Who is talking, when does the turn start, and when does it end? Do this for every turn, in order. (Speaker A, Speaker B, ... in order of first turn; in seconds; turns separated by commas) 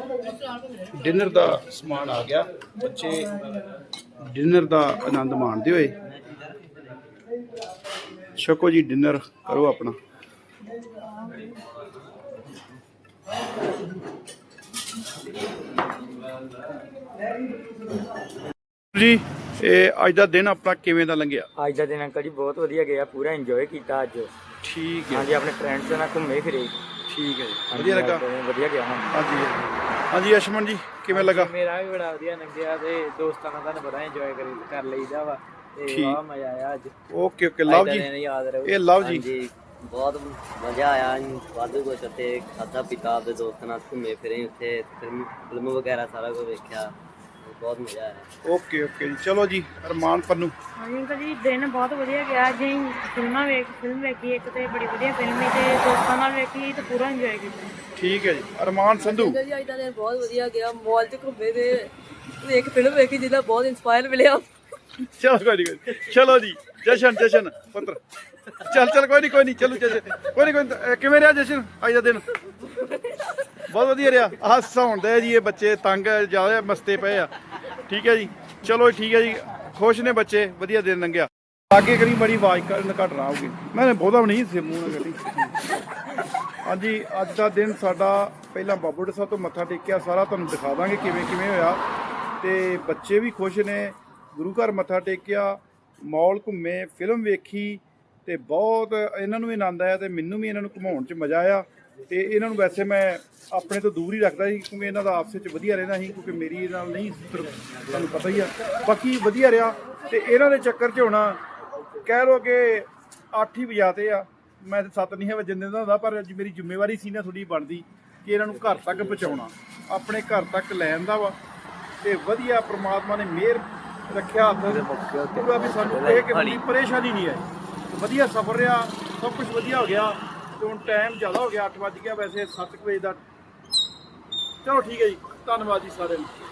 Speaker A: 0.9-3.5, Speaker A: 4.2-6.0, Speaker A: 8.3-10.0, Speaker A: 18.9-21.5, Speaker B: 21.6-24.3, Speaker A: 24.6-25.3, Speaker B: 25.1-26.8, Speaker A: 27.1-28.3, Speaker B: 27.7-29.3, Speaker A: 29.1-31.5, Speaker C: 31.1-36.9, Speaker A: 35.9-36.2, Speaker A: 37.1-38.1, Speaker C: 37.7-38.8, Speaker A: 38.6-39.3, Speaker D: 39.0-46.9, Speaker D: 47.4-48.3, Speaker A: 48.5-50.5, Speaker E: 50.8-57.8, Speaker A: 58.0-59.4, Speaker F: 59.1-61.9, Speaker F: 62.4-64.5, Speaker A: 65.0-72.3, Speaker A: 73.7-77.3, Speaker A: 77.9-85.6, Speaker A: 86.6-91.8, Speaker A: 92.4-111.4, Speaker A: 112.0-121.4, Speaker C: 118.5-119.4, Speaker A: 122.0-133.2, Speaker C: 124.7-126.6, Speaker A: 134.6-136.3